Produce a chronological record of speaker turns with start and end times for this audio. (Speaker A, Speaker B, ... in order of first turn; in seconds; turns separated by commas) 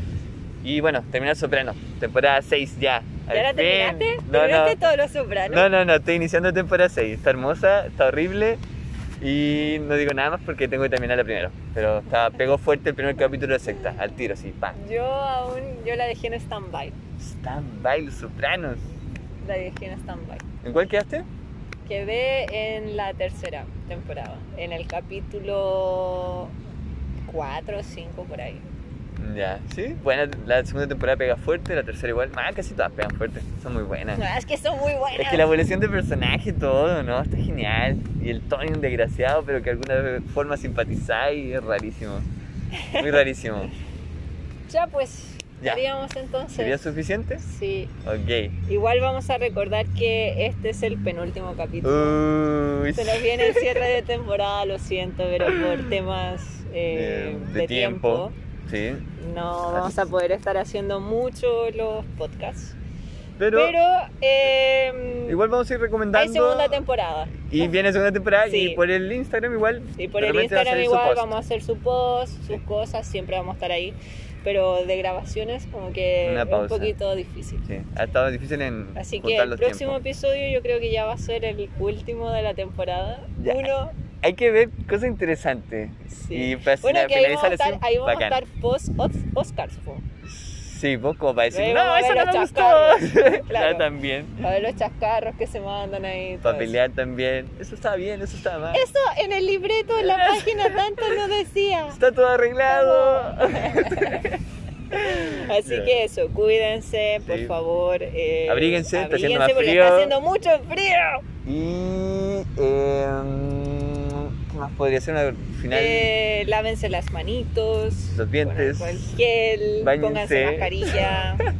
Speaker A: 0.6-4.8, Speaker B: 3.3-5.7, Speaker A: 5.5-8.6, Speaker A: 9.2-14.8, Speaker B: 14.7-17.0, Speaker A: 17.2-18.8, Speaker B: 19.4-20.5, Speaker A: 20.6-21.3, Speaker B: 21.9-26.5, Speaker B: 27.2-28.6, Speaker A: 29.2-34.2, Speaker B: 34.2-35.5, Speaker A: 35.1-42.3, Speaker B: 42.7-43.2, Speaker A: 42.9-43.7, Speaker B: 44.7-47.9, Speaker A: 46.5-47.4, Speaker A: 48.0-48.5, Speaker B: 48.7-52.2, Speaker A: 51.8-53.9, Speaker B: 53.0-58.4, Speaker A: 55.4-55.9, Speaker A: 56.9-59.0, Speaker B: 59.2-62.8, Speaker A: 59.7-60.1, Speaker A: 63.4-63.8, Speaker B: 63.5-65.4, Speaker A: 65.3-66.8, Speaker B: 66.1-67.7, Speaker A: 67.5-71.3, Speaker B: 68.5-68.8, Speaker B: 70.0-77.6, Speaker A: 76.2-76.9, Speaker A: 77.7-80.0, Speaker B: 79.0-84.0, Speaker A: 83.4-88.4, Speaker B: 86.1-90.0, Speaker A: 90.2-94.4, Speaker B: 91.5-93.9, Speaker B: 94.4-96.8, Speaker A: 96.4-98.8, Speaker B: 98.7-102.0, Speaker A: 100.0-101.2, Speaker A: 101.9-106.0, Speaker B: 102.7-104.3, Speaker B: 104.9-111.3, Speaker A: 107.2-107.5, Speaker A: 108.5-110.1, Speaker A: 111.5-116.1, Speaker B: 115.7-121.5, Speaker A: 118.1-119.2, Speaker A: 119.8-121.2